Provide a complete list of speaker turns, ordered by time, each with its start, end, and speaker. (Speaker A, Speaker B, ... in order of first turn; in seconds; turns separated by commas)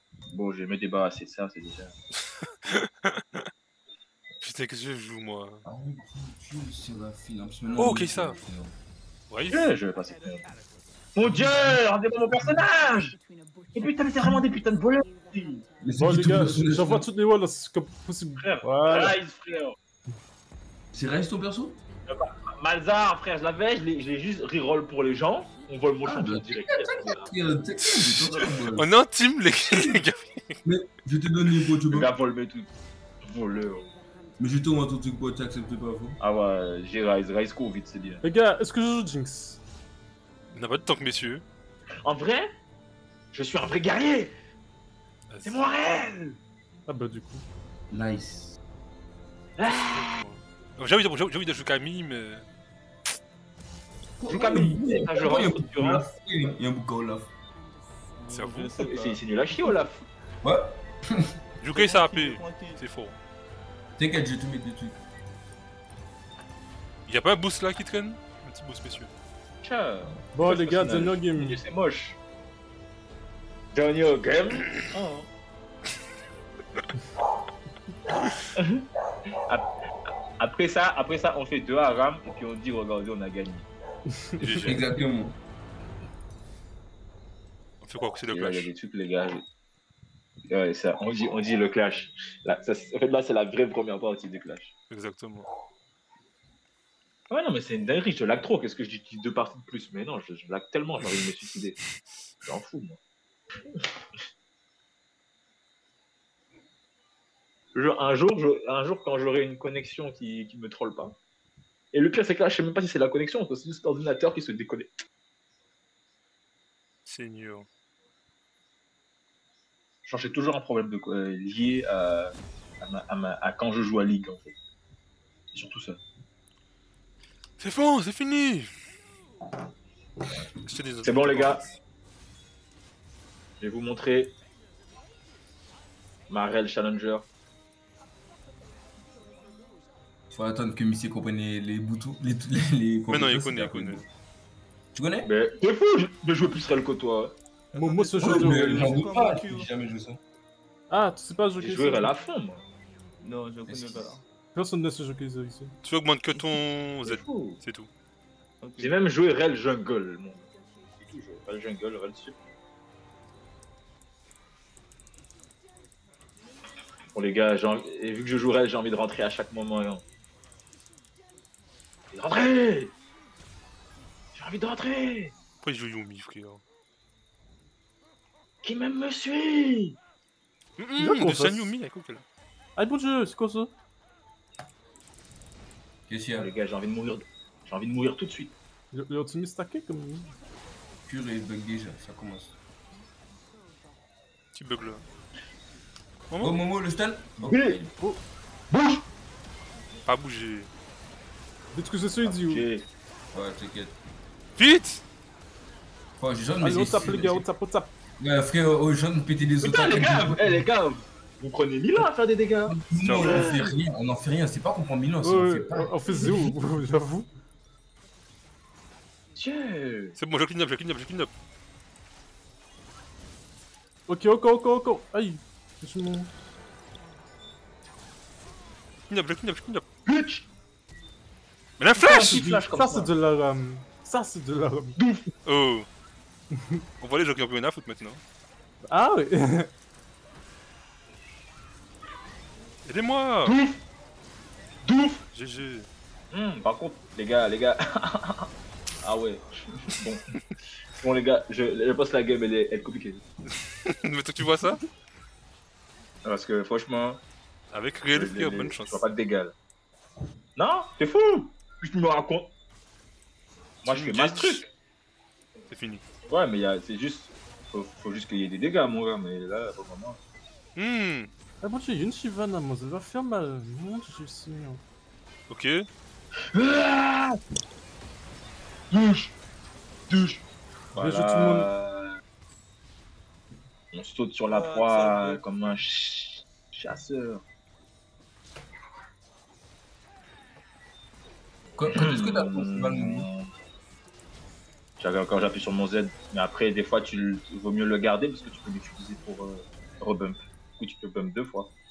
Speaker A: 0.3-1.9, Speaker B: 2.6-3.4, Speaker B: 4.4-5.6, Speaker C: 5.7-8.8, Speaker B: 7.8-8.4, Speaker B: 9.3-9.7, Speaker A: 9.5-10.4, Speaker A: 11.2-13.2, Speaker A: 13.7-15.7, Speaker C: 15.8-17.1, Speaker D: 16.0-19.2, Speaker A: 18.4-19.8, Speaker C: 20.9-21.8, Speaker A: 22.1-27.3, Speaker C: 26.1-28.9, Speaker B: 27.8-30.6, Speaker C: 30.6-32.1, Speaker A: 31.9-33.9, Speaker C: 34.4-36.2, Speaker A: 36.2-38.2, Speaker D: 38.2-39.6, Speaker B: 40.5-41.4, Speaker A: 42.0-42.5, Speaker A: 43.3-44.3, Speaker B: 45.3-45.7, Speaker A: 45.5-46.4, Speaker D: 46.9-47.4, Speaker C: 47.9-48.6, Speaker A: 49.6-50.2, Speaker B: 49.7-52.5, Speaker C: 54.2-57.3, Speaker A: 54.3-56.0, Speaker E: 58.2-59.8, Speaker B: 58.3-58.7, Speaker A: 58.8-60.1, Speaker C: 60.4-61.3, Speaker B: 61.6-63.2, Speaker E: 61.7-62.8, Speaker C: 64.0-65.0, Speaker B: 67.1-69.1, Speaker A: 69.6-72.2, Speaker D: 70.3-71.6, Speaker A: 73.7-75.3, Speaker A: 78.5-78.8, Speaker A: 80.4-83.7, Speaker D: 84.1-84.6, Speaker B: 84.4-84.9, Speaker C: 84.6-85.4, Speaker B: 87.8-88.7, Speaker A: 88.3-89.4, Speaker A: 90.5-94.7, Speaker B: 94.9-95.5, Speaker A: 97.3-101.8, Speaker A: 102.4-103.0, Speaker A: 107.8-111.2, Speaker A: 111.9-114.9, Speaker B: 117.1-117.7, Speaker A: 120.0-124.6, Speaker A: 125.5-126.0, Speaker B: 127.6-128.7, Speaker B: 130.7-131.7, Speaker A: 131.0-131.6, Speaker A: 133.6-134.3, Speaker A: 136.3-137.3, Speaker C: 140.3-144.1, Speaker B: 143.1-144.1, Speaker C: 144.9-145.3, Speaker A: 145.2-147.4, Speaker D: 147.7-148.9, Speaker E: 147.8-149.7, Speaker C: 148.2-150.2, Speaker D: 150.9-152.1, Speaker A: 151.6-152.6, Speaker E: 153.2-154.2, Speaker C: 153.7-154.1, Speaker D: 154.6-155.7, Speaker B: 155.8-157.9, Speaker A: 157.1-157.6, Speaker E: 158.6-159.0, Speaker A: 158.8-162.4, Speaker A: 167.2-170.0, Speaker A: 172.1-172.9, Speaker A: 174.3-175.3, Speaker B: 175.6-176.6, Speaker A: 178.6-180.0, Speaker B: 180.8-182.2, Speaker D: 181.0-181.8, Speaker D: 182.8-183.7, Speaker C: 186.1-186.5, Speaker A: 186.4-188.5, Speaker D: 188.9-190.3, Speaker C: 191.1-192.6, Speaker B: 194.5-195.0, Speaker B: 196.3-196.6, Speaker C: 196.4-197.9, Speaker A: 197.5-197.8, Speaker A: 198.7-199.1, Speaker B: 200.1-200.7, Speaker D: 201.7-202.7, Speaker A: 202.2-202.9, Speaker C: 203.3-204.0, Speaker B: 204.6-205.0, Speaker C: 206.2-207.5, Speaker D: 206.6-207.9, Speaker C: 208.2-210.6, Speaker A: 209.6-213.6, Speaker C: 212.7-215.9, Speaker B: 213.0-213.5, Speaker D: 215.2-217.3, Speaker A: 216.1-216.3, Speaker A: 219.3-220.2, Speaker B: 220.2-221.3, Speaker D: 224.1-226.3, Speaker B: 229.1-229.8, Speaker A: 230.1-230.5, Speaker B: 231.8-232.4, Speaker A: 232.0-233.1, Speaker D: 232.1-235.0, Speaker A: 235.0-235.3, Speaker B: 235.5-235.9, Speaker D: 236.5-236.8, Speaker B: 237.0-238.2, Speaker D: 238.8-239.7, Speaker B: 242.8-243.6, Speaker A: 243.4-243.8, Speaker A: 244.8-245.2, Speaker B: 245.3-245.9, Speaker A: 246.3-248.5, Speaker A: 249.0-250.2, Speaker A: 251.0-253.2, Speaker B: 253.9-254.8, Speaker A: 256.2-257.2, Speaker B: 257.7-259.1, Speaker A: 258.1-259.5, Speaker A: 260.6-262.5, Speaker A: 263.8-264.7, Speaker B: 263.9-264.6, Speaker B: 265.7-266.0, Speaker A: 266.3-270.2, Speaker B: 270.8-271.3, Speaker D: 271.6-274.8, Speaker B: 275.5-275.9, Speaker A: 276.5-277.4, Speaker A: 278.9-279.4, Speaker A: 280.1-280.4, Speaker A: 280.9-282.2, Speaker D: 281.0-281.7, Speaker A: 283.9-287.4, Speaker E: 284.5-285.4, Speaker C: 291.8-293.3, Speaker A: 291.9-293.5, Speaker A: 295.0-301.7